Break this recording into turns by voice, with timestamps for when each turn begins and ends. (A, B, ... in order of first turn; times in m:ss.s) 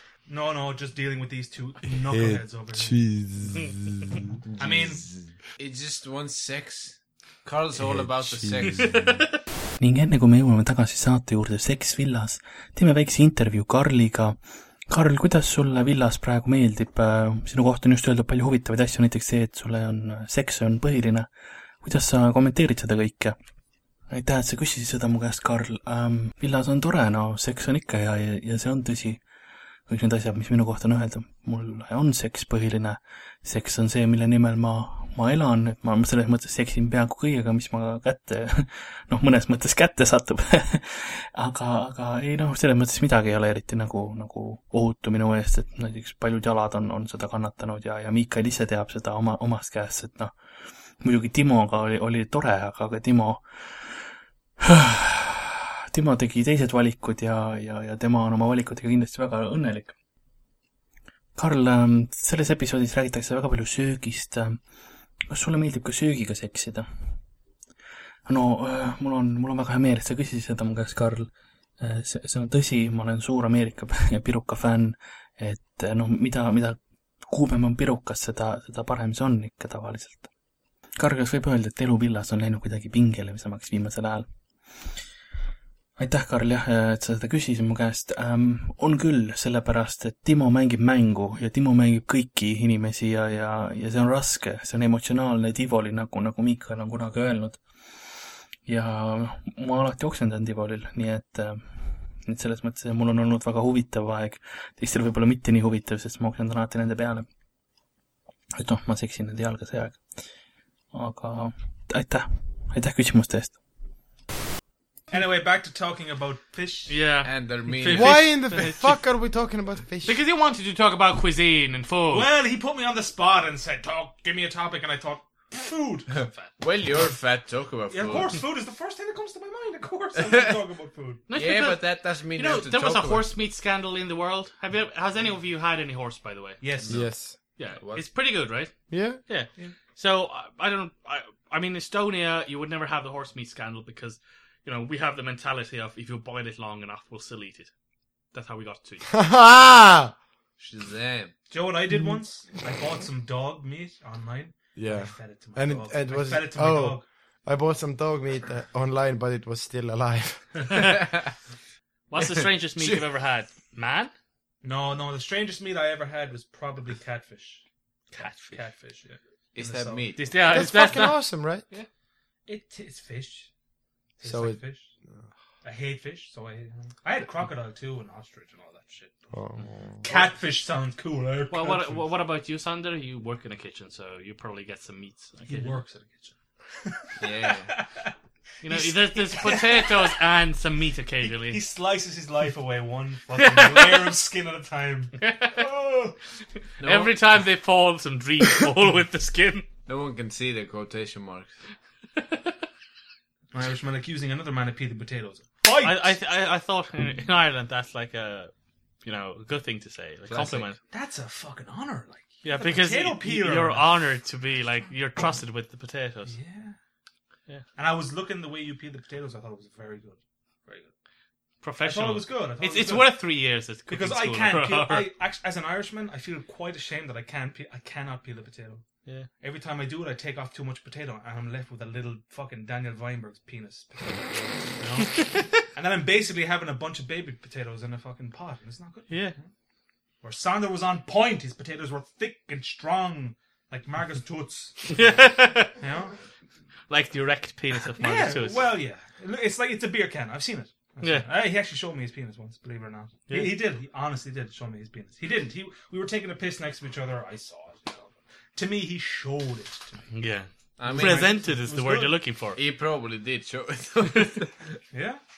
0:00.3-0:03.0 A
0:02.1-0:04.2 B
0:04.5-0:09.0 C
0:04.6-0:05.0 A
0:08.2-0:09.1 B
0:08.8-0:09.3 D
0:09.8-0:21.3 E
0:21.8-0:23.4 E
0:24.1-0:29.2 E
0:29.9-0:50.3 E
0:51.0-0:53.4 E
0:54.6-0:59.9 E
1:01.3-1:04.6 E
1:05.3-1:06.9 E
1:08.2-1:20.3 E
1:21.0-1:24.2 E
1:26.0-1:37.6 E
1:38.6-1:47.2 E
1:48.5-1:50.0 E
1:50.9-1:53.6 E
1:55.1-1:57.0 A
1:56.9-1:59.0 D
1:57.2-1:58.3 C
1:57.9-2:00.2 B
2:00.0-2:02.3 D
2:02.1-2:06.6 A
2:06.6-2:08.4 C
2:07.9-2:11.2 A
2:10.2-2:10.5 C
2:11.3-2:16.6 D
2:11.3-2:13.3 C
2:16.6-2:17.0 A
2:16.9-2:17.3 B
2:17.6-2:27.7 D
2:17.8-2:18.0 C
2:18.9-2:19.2 B
2:28.3-2:29.1 D
2:29.1-2:30.1 B
2:30.6-2:31.3 C
2:31.5-2:37.0 A
2:34.8-2:40.6 B
2:40.7-2:41.0 D
2:42.1-2:44.1 D
2:42.8-2:43.0 C
2:44.6-2:47.6 A
2:48.1-2:48.6 D
2:48.2-2:50.1 A
2:49.5-2:50.5 C
2:50.2-2:51.9 D
2:50.5-2:51.6 B
2:52.5-2:53.5 A
2:54.2-2:54.9 A
2:54.2-2:54.6 B
2:55.6-2:59.3 A
2:59.3-3:00.0 B
3:00.0-3:02.0 A
3:01.5-3:05.7 D
3:05.5-3:08.1 A
3:07.2-3:07.7 C
3:08.6-3:11.6 D
3:08.6-3:10.1 A
3:11.2-3:16.2 A
3:13.3-3:14.1 D
3:15.2-3:15.6 D
3:16.8-3:17.1 C
3:16.8-3:19.6 D
3:19.9-3:21.5 C
3:22.2-3:22.5 D
3:23.5-3:26.1 A
3:25.8-3:28.5 D
3:29.0-3:30.8 D
3:30.3-3:30.7 C
3:30.9-3:33.9 A
3:32.4-3:36.4 D
3:36.2-3:36.8 A
3:37.8-3:40.9 A
3:41.6-3:45.1 D
3:41.8-3:43.2 A
3:43.9-3:48.8 A
3:49.4-3:59.5 A
3:59.1-3:59.4 D
4:00.2-4:06.2 A
4:04.9-4:05.8 D
4:06.9-4:08.6 D
4:08.0-4:20.1 A
4:11.0-4:11.3 D
4:13.3-4:13.6 D
4:20.1-4:22.6 D
4:20.8-4:21.5 C
4:20.8-4:22.2 A
4:22.6-4:24.6 C
4:24.9-4:25.2 A